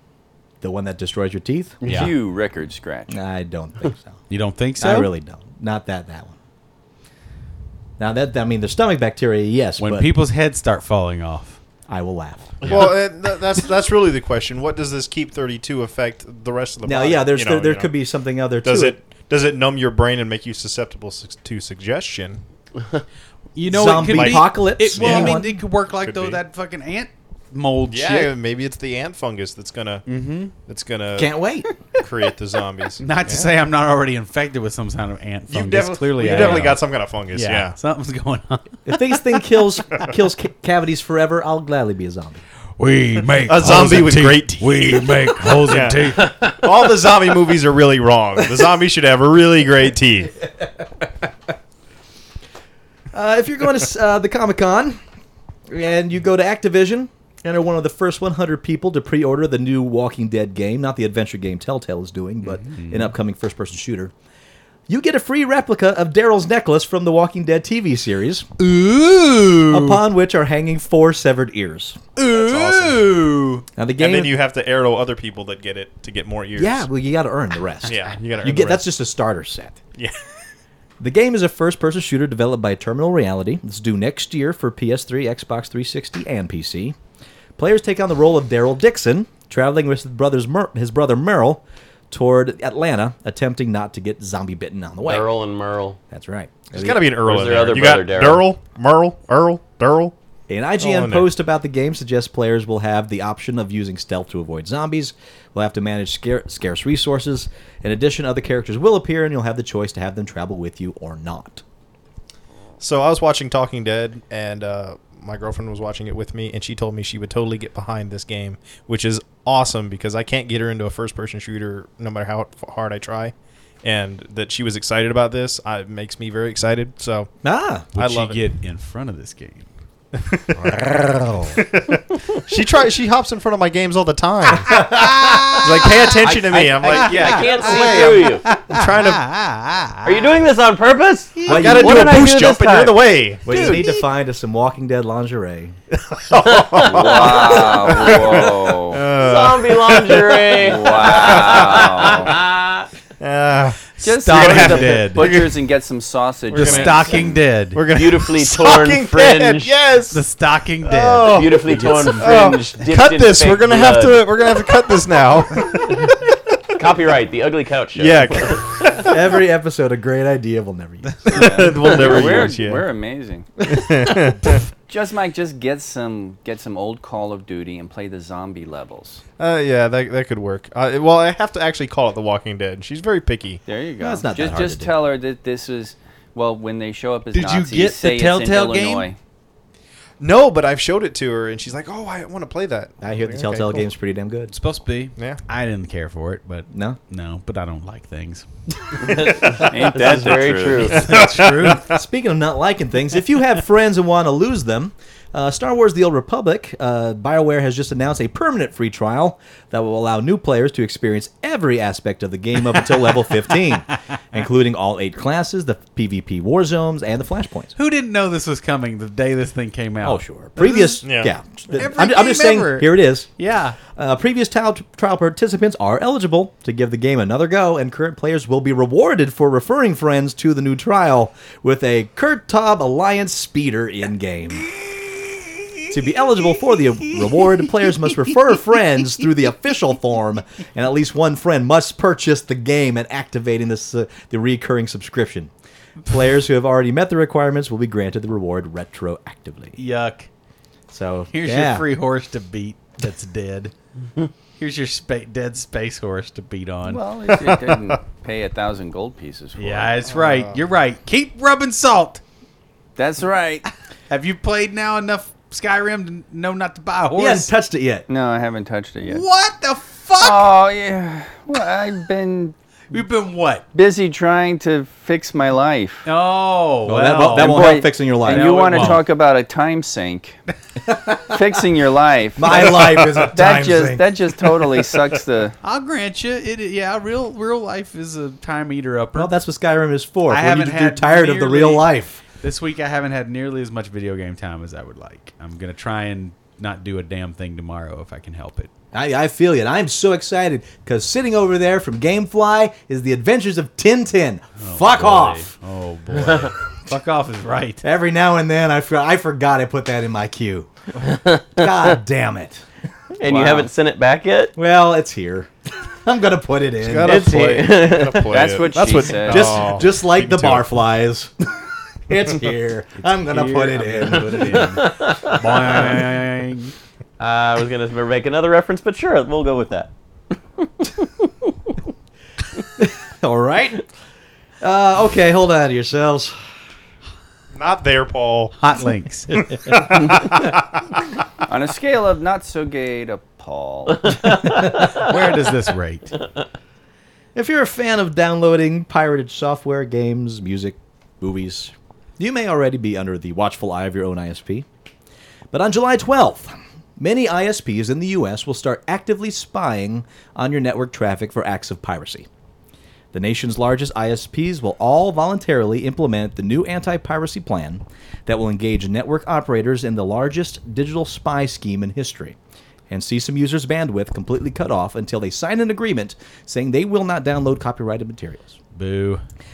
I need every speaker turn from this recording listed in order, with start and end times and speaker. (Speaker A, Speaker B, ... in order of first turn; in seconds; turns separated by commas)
Speaker A: 0.6-1.8, Speaker B: 1.8-3.2, Speaker C: 1.8-2.1, Speaker A: 3.1-4.2, Speaker C: 4.3-5.1, Speaker A: 4.8-6.3, Speaker A: 8.0-10.1, Speaker C: 9.8-11.6, Speaker A: 11.9-12.9, Speaker D: 12.6-17.9, Speaker A: 16.9-19.0, Speaker D: 18.6-22.4, Speaker C: 23.6-28.3, Speaker A: 23.7-25.5, Speaker D: 23.9-26.4, Speaker D: 27.9-31.3, Speaker C: 30.1-30.5, Speaker A: 31.2-31.7, Speaker D: 32.0-33.5, Speaker C: 33.0-39.1, Speaker D: 35.5-37.8, Speaker A: 36.2-36.6, Speaker A: 38.9-42.4, Speaker C: 42.8-46.4, Speaker D: 43.5-50.4, Speaker A: 53.1-55.0, Speaker A: 55.7-64.1, Speaker C: 62.4-63.1, Speaker A: 64.9-68.5, Speaker C: 68.6-70.0, Speaker A: 69.7-72.1, Speaker C: 72.2-73.7, Speaker D: 72.4-72.9, Speaker A: 73.8-74.4, Speaker D: 74.0-76.9, Speaker A: 76.6-79.8, Speaker D: 77.8-78.8, Speaker A: 81.0-87.0, Speaker A: 87.6-95.3, Speaker E: 95.0-96.0, Speaker A: 96.1-97.2, Speaker D: 96.7-100.1, Speaker E: 97.2-98.5, Speaker A: 100.5-111.6, Speaker D: 100.8-101.3, Speaker D: 112.8-127.3, Speaker A: 127.4-127.9, Speaker D: 128.0-128.5, Speaker C: 128.0-129.7, Speaker D: 130.2-130.8, Speaker C: 130.6-131.6, Speaker D: 131.5-134.7, Speaker A: 134.7-136.3, Speaker C: 134.9-136.1, Speaker D: 135.6-139.2, Speaker E: 136.2-138.5, Speaker C: 136.8-140.4, Speaker E: 140.0-143.8, Speaker C: 141.3-142.2, Speaker D: 141.5-143.8, Speaker A: 141.5-142.6, Speaker A: 143.4-145.8, Speaker C: 143.5-144.0, Speaker D: 146.0-152.2, Speaker E: 146.3-148.5, Speaker B: 146.8-149.0, Speaker E: 149.2-152.9, Speaker B: 150.6-152.3, Speaker D: 153.2-155.5, Speaker C: 154.0-155.4, Speaker B: 154.0-157.3, Speaker D: 156.5-160.2, Speaker C: 156.6-157.8, Speaker E: 157.9-159.7, Speaker C: 160.1-162.4, Speaker D: 160.8-161.6, Speaker E: 161.3-164.2, Speaker D: 162.2-166.3, Speaker E: 166.8-168.7, Speaker D: 168.0-169.1, Speaker A: 169.0-171.6, Speaker D: 171.3-172.9, Speaker B: 171.3-173.5, Speaker D: 173.7-174.6, Speaker B: 174.9-179.2, Speaker D: 179.4-183.6, Speaker B: 183.7-189.2, Speaker A: 184.0-184.9, Speaker C: 187.3-189.1, Speaker D: 190.2-193.9, Speaker A: 193.0-194.6, Speaker C: 194.5-198.5, Speaker A: 196.7-197.0, Speaker E: 199.0-201.1, Speaker B: 199.5-201.0, Speaker D: 200.9-201.8, Speaker C: 201.0-201.8, Speaker A: 201.0-217.7, Speaker C: 217.8-221.0, Speaker A: 220.0-223.3, Speaker D: 221.0-221.3, Speaker C: 221.7-223.8, Speaker A: 223.9-234.7, Speaker A: 235.9-245.5, Speaker A: 246.1-249.8, Speaker C: 249.8-250.3, Speaker A: 250.9-251.9, Speaker C: 251.3-253.7, Speaker C: 254.6-257.6, Speaker B: 256.9-259.9, Speaker C: 259.6-262.2, Speaker D: 260.1-260.6, Speaker B: 263.0-263.7, Speaker C: 264.1-267.5, Speaker A: 267.2-268.1, Speaker B: 268.1-269.2, Speaker C: 269.1-270.5, Speaker B: 270.2-272.6, Speaker C: 272.9-273.6, Speaker B: 273.7-276.1, Speaker C: 276.1-279.1, Speaker A: 276.9-279.0, Speaker B: 277.4-280.4, Speaker A: 280.9-281.4, Speaker B: 281.3-285.6, Speaker A: 282.4-284.4, Speaker C: 285.6-289.3, Speaker A: 289.1-292.2, Speaker C: 290.3-298.7, Speaker A: 298.9-305.5, Speaker C: 304.6-307.8, Speaker A: 307.8-312.6, Speaker E: 313.2-314.6, Speaker B: 313.3-313.6, Speaker A: 314.6-315.5, Speaker A: 316.0-317.4, Speaker D: 316.8-320.1, Speaker E: 317.1-318.4, Speaker B: 318.3-319.8, Speaker A: 319.3-321.5, Speaker C: 320.2-320.6, Speaker A: 322.1-324.8, Speaker C: 323.0-326.7, Speaker E: 324.4-326.0, Speaker E: 327.2-329.9, Speaker E: 330.6-331.3, Speaker A: 332.8-333.9, Speaker A: 334.6-336.4, Speaker D: 337.5-338.6, Speaker C: 338.6-339.4, Speaker D: 339.4-340.6, Speaker B: 341.5-344.2, Speaker E: 344.1-345.1, Speaker C: 344.9-346.1, Speaker A: 347.4-354.7, Speaker A: 355.5-362.3, Speaker A: 363.1-372.4, Speaker A: 372.9-378.6, Speaker C: 378.8-379.2